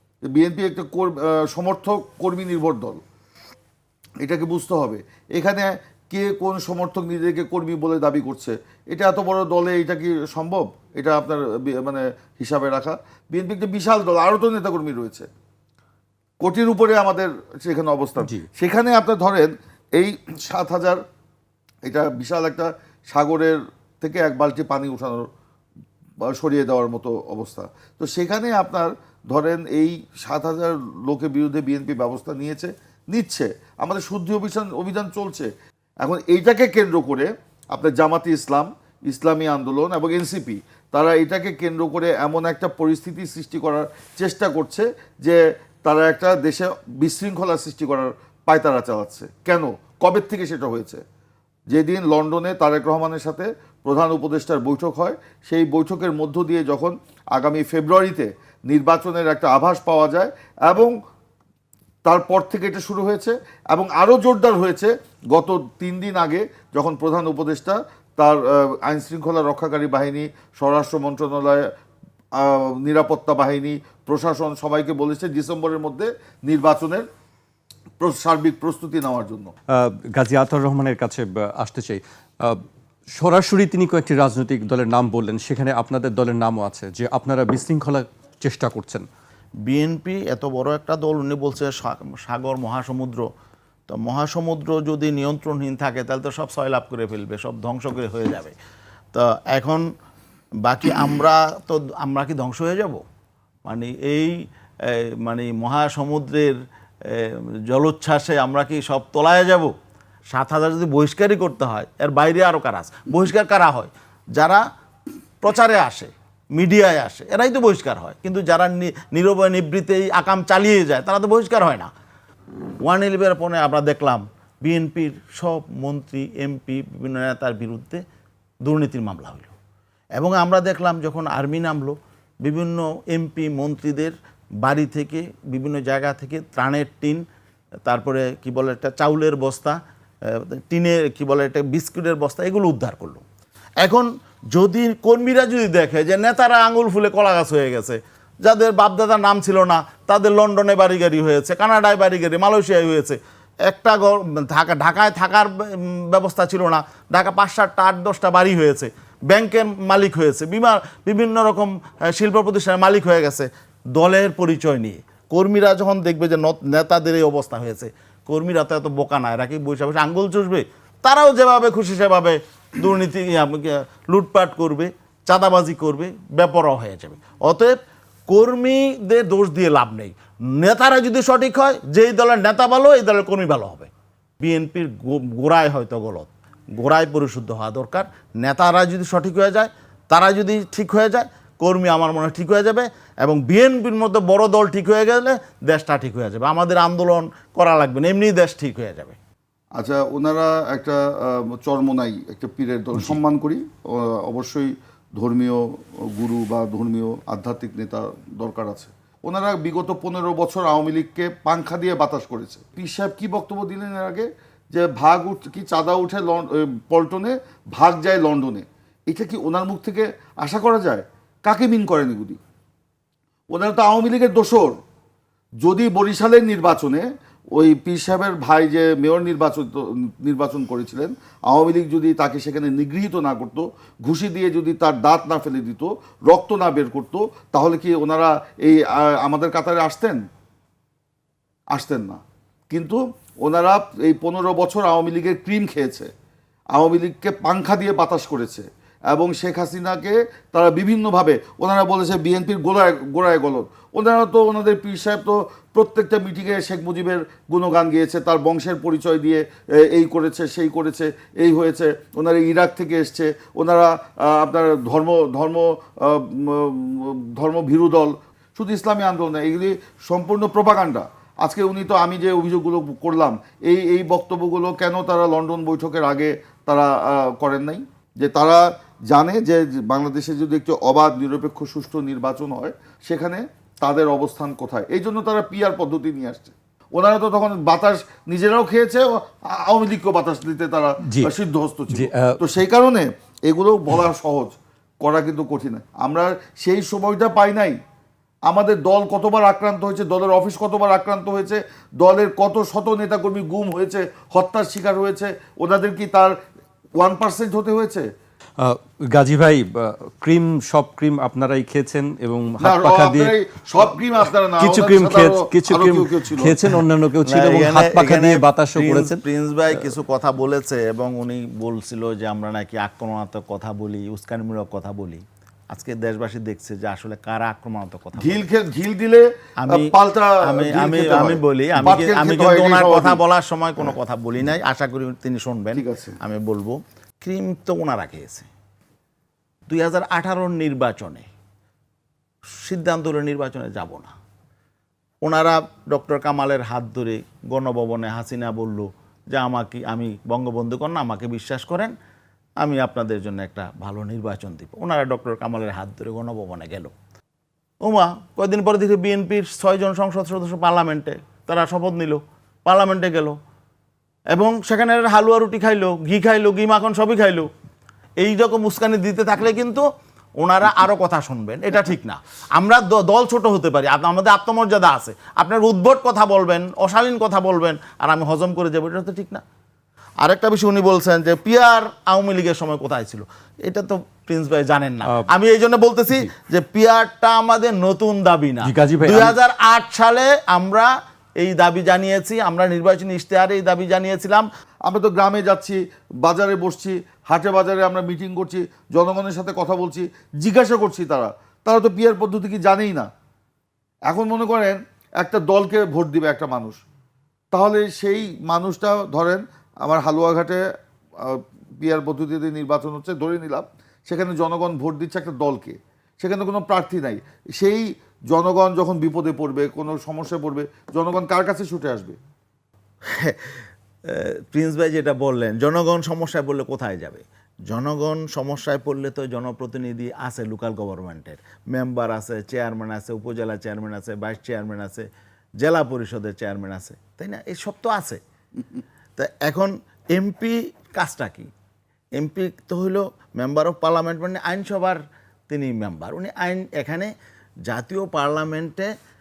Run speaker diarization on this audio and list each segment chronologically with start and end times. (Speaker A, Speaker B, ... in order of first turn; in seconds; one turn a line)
Speaker A: 0.3-3.0
Speaker A: 4.2-15.3
Speaker A: 16.4-21.0
Speaker A: 21.9-25.3
Speaker A: 26.2-35.5
Speaker A: 36.0-51.0
Speaker A: 51.7-60.9
Speaker A: 62.0-71.6
Speaker A: 72.3-77.1
Speaker A: 78.0-79.5
Speaker B: 79.7-82.6
Speaker B: 83.1-89.1
Speaker C: 89.7-93.3
Speaker C: 93.9-98.5
Speaker C: 99.1-99.8
Speaker C: 100.7-103.0
Speaker C: 103.7-106.5
Speaker C: 107.1-109.7
Speaker C: 110.3-114.6
Speaker C: 115.4-121.9
Speaker C: 122.8-128.0
Speaker C: 128.7-129.5
Speaker C: 130.2-137.2
Speaker C: 137.9-143.2
Speaker C: 143.8-177.8
Speaker C: 178.3-183.9
Speaker C: 184.4-199.2
Speaker A: 199.8-222.4
Speaker A: 223.5-224.8
Speaker A: 225.6-240.2
Speaker A: 241.7-246.1
Speaker A: 246.7-297.8
Speaker B: 291.0-291.3
Speaker B: 291.9-292.4
Speaker A: 298.5-306.4
Speaker A: 307.0-308.1
Speaker B: 308.6-319.2
Speaker A: 312.6-316.6
Speaker C: 317.2-328.5
Speaker A: 328.2-333.2
Speaker C: 329.6-329.9
Speaker C: 330.4-338.5
Speaker A: 335.7-336.2
Speaker C: 339.7-341.3
Speaker C: 342.6-344.1
Speaker C: 345.2-351.9
Speaker C: 352.6-356.9
Speaker C: 357.8-363.4
Speaker C: 364.4-367.5
Speaker C: 368.2-369.9
Speaker C: 370.4-379.4
Speaker C: 380.2-394.5
Speaker B: 388.6-389.4
Speaker A: 394.9-403.1
Speaker A: 404.1-406.8
Speaker A: 407.5-410.6
Speaker A: 411.2-422.2
Speaker C: 423.1-435.1
Speaker C: 435.6-438.2
Speaker C: 439.2-441.5
Speaker C: 442.2-447.1
Speaker C: 447.7-448.9